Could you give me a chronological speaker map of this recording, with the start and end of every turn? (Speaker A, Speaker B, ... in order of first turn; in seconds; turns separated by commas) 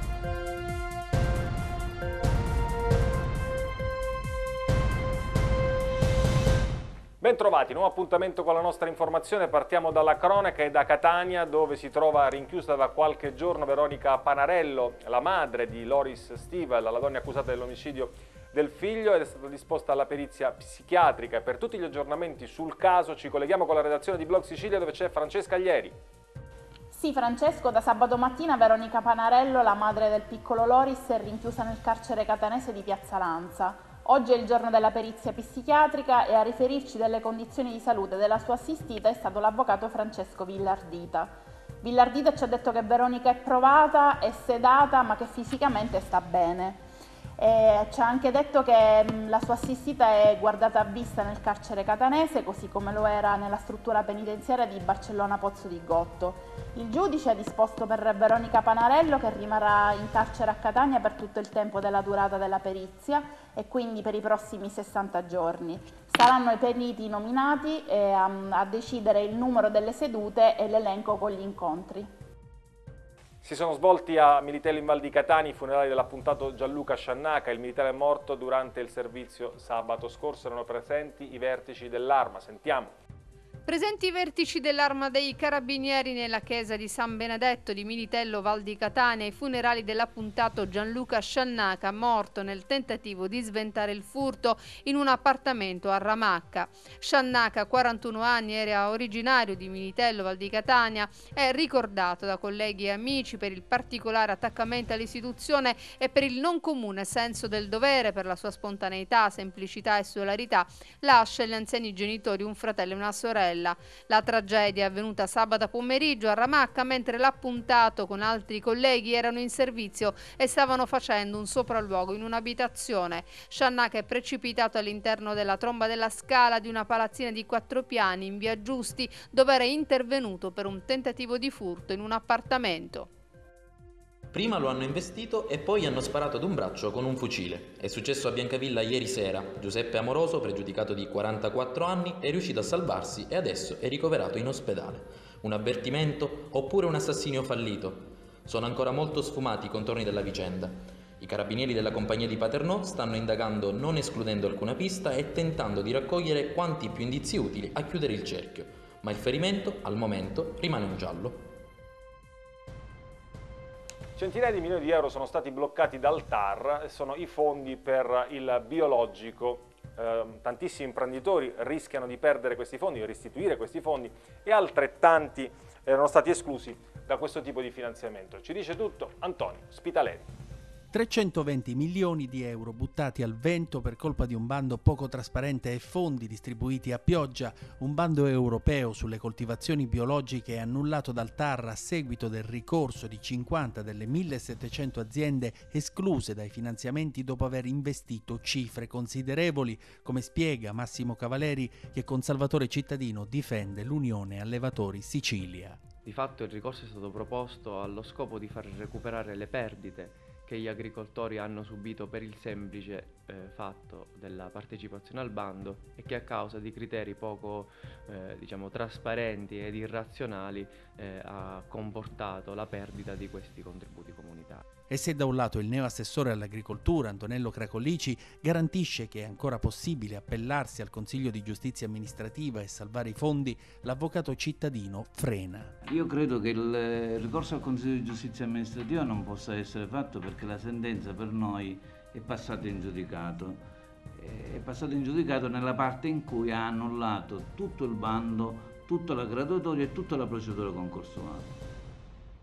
Speaker A: 7.2-25.9, Speaker B: 26.9-46.8, Speaker B: 47.4-72.1, Speaker A: 73.4-82.9, Speaker C: 83.7-133.1, Speaker D: 134.3-161.4, Speaker A: 164.2-180.3, Speaker E: 180.9-205.8, Speaker F: 206.0-224.6, Speaker E: 224.9-235.7, Speaker G: 235.8-243.6, Speaker G: 244.2-251.5